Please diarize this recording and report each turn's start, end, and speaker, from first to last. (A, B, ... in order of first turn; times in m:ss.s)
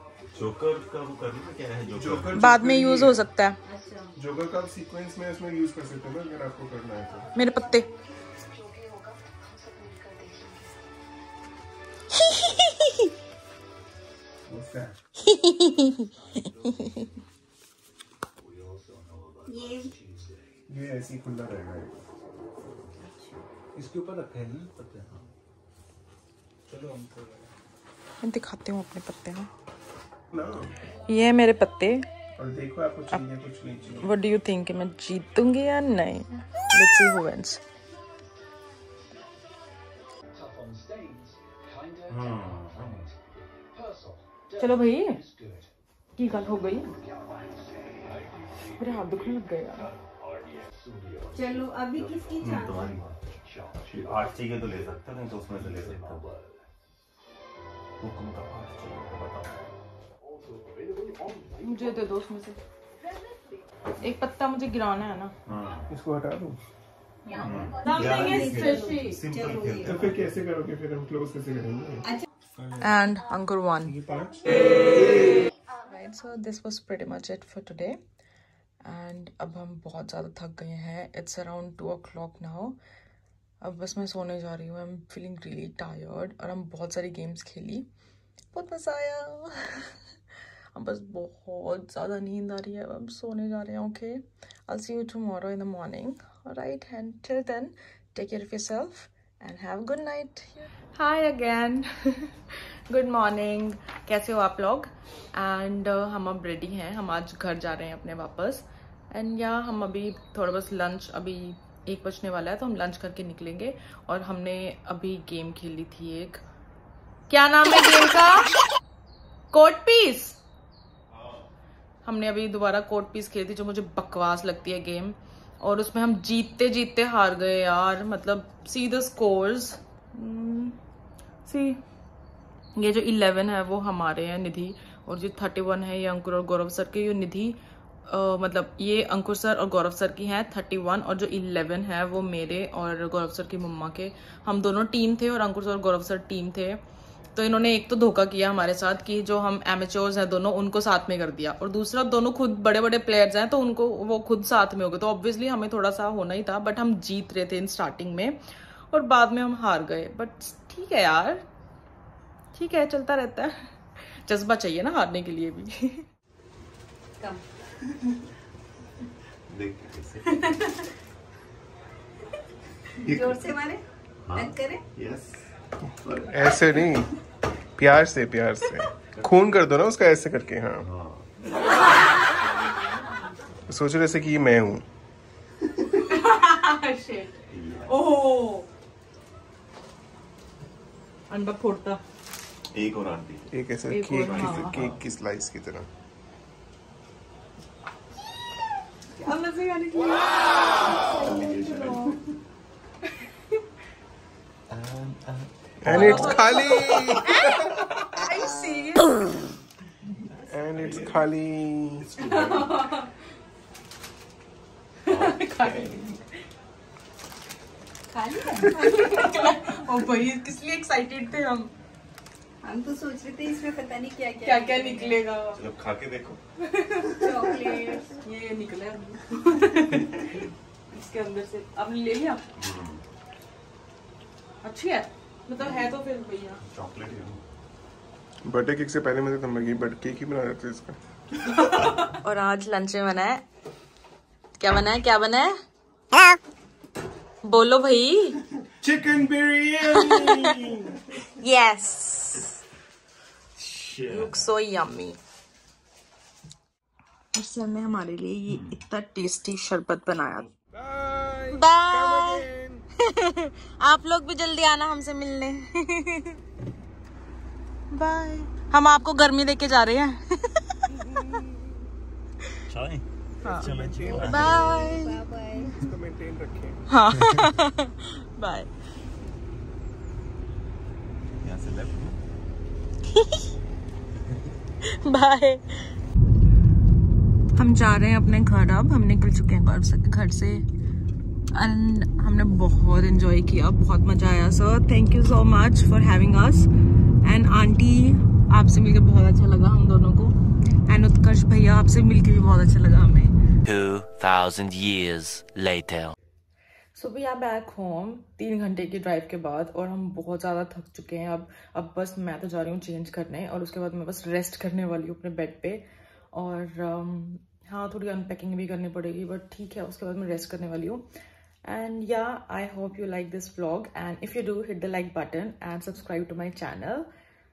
0:00.3-0:02.4 A
0:01.9-0:03.2 B
0:02.3-0:03.6 C
0:03.6-0:04.1 D
0:04.2-0:07.3 B
0:07.3-0:08.4 C
0:09.8-0:10.6 C
0:12.2-0:13.0 C
0:14.5-0:15.0 B
0:15.2-0:16.1 C
0:16.6-0:17.1 C
0:19.5-0:20.0 D
0:20.7-0:22.0 B
0:23.7-0:24.7 E
0:24.8-0:25.2 A
0:26.7-0:27.5 E
0:28.2-0:29.5 C
0:30.3-0:30.8 B
0:31.1-0:32.0 C
0:32.4-0:34.1 B
0:34.0-0:37.6 C
0:40.5-0:42.9 D
0:42.1-0:43.1 A
0:44.6-0:45.2 C
0:46.2-0:46.9 C
0:48.7-0:49.9 C
0:51.3-0:53.0 D
0:51.9-0:53.2 A
0:53.8-0:56.3 A
0:58.0-0:59.7 A
1:01.6-1:02.6 C
1:04.0-1:05.3 C
1:05.5-1:05.9 A
1:05.9-1:06.6 B
1:07.3-1:09.9 D
1:07.3-1:10.3 A
1:07.8-1:09.2 C
1:09.8-1:12.1 B
1:12.5-1:12.9 E
1:12.8-1:14.0 C
1:13.8-1:15.4 B
1:15.8-1:18.0 C
1:18.8-1:22.8 C
1:23.6-1:27.9 C
1:28.5-1:30.0 C
1:30.7-1:42.3 C
1:42.9-1:56.4 C
1:57.3-1:58.5 C
1:59.5-2:00.4 C
2:01.1-2:01.5 A
2:02.0-2:10.8 C
2:11.4-2:11.8 C
2:12.8-2:26.8 C
2:27.3-2:38.4 C
2:38.9-2:41.4 C
2:42.5-2:46.0 C
2:49.5-2:50.7 A
2:53.0-2:54.8 D
2:53.0-2:53.4 A
2:54.2-2:55.5 A
2:56.0-2:56.5 A
2:56.0-2:57.1 B
2:57.8-3:00.9 B
3:00.8-3:01.4 A
3:02.6-3:03.2 D
3:03.7-3:04.8 B
3:05.8-3:08.7 C
3:07.5-3:08.0 A
3:11.3-3:12.0 C
3:12.7-3:13.5 A
3:13.5-3:15.9 B
3:13.9-3:14.8 C
3:14.2-3:15.0 A
3:19.2-3:21.9 D
3:20.8-3:22.1 C
3:21.2-3:22.2 A
3:24.7-3:26.4 A
3:25.8-3:27.9 B
3:25.8-3:29.1 C
3:30.4-3:31.3 A
3:30.5-3:32.1 B
3:32.0-3:33.0 A
3:32.5-3:32.8 D
3:35.0-3:36.2 C
3:35.0-3:36.0 A
3:38.1-3:39.7 D
3:38.7-3:41.7 C
3:42.6-3:45.2 D
3:44.4-3:45.6 C
3:45.5-3:46.4 A
3:46.6-3:52.4 C
3:47.1-3:48.2 D
3:49.8-3:50.0 A
3:52.6-3:53.0 A
3:54.6-3:56.6 C
3:56.6-3:57.4 A
3:58.4-4:01.0 B
4:01.7-4:03.4 C
4:04.6-4:05.5 C
4:07.4-4:08.4 C
4:08.8-4:11.0 B
4:09.9-4:10.5 C
4:11.3-4:12.6 C
4:13.6-4:14.4 A
4:14.1-4:15.2 C
4:17.3-4:20.4 C
4:18.5-4:18.8 A
4:20.7-4:22.8 B
4:21.5-4:22.4 C
4:23.0-4:26.4 C
4:27.9-4:30.8 C
4:31.1-4:31.5 B
4:32.7-4:34.6 A
4:33.4-4:35.2 C
4:33.4-4:34.6 B
4:34.4-4:35.9 D
4:35.6-4:36.9 B
4:36.9-4:38.7 C
4:41.4-4:42.2 A
4:43.2-4:43.4 C
4:44.8-4:45.9 C
4:47.5-4:50.6 C
4:51.5-4:56.7 C
4:57.2-5:00.3 C
5:00.9-5:03.4 C
5:03.6-5:06.1 F
5:06.9-5:21.0 C
5:21.6-5:27.1 C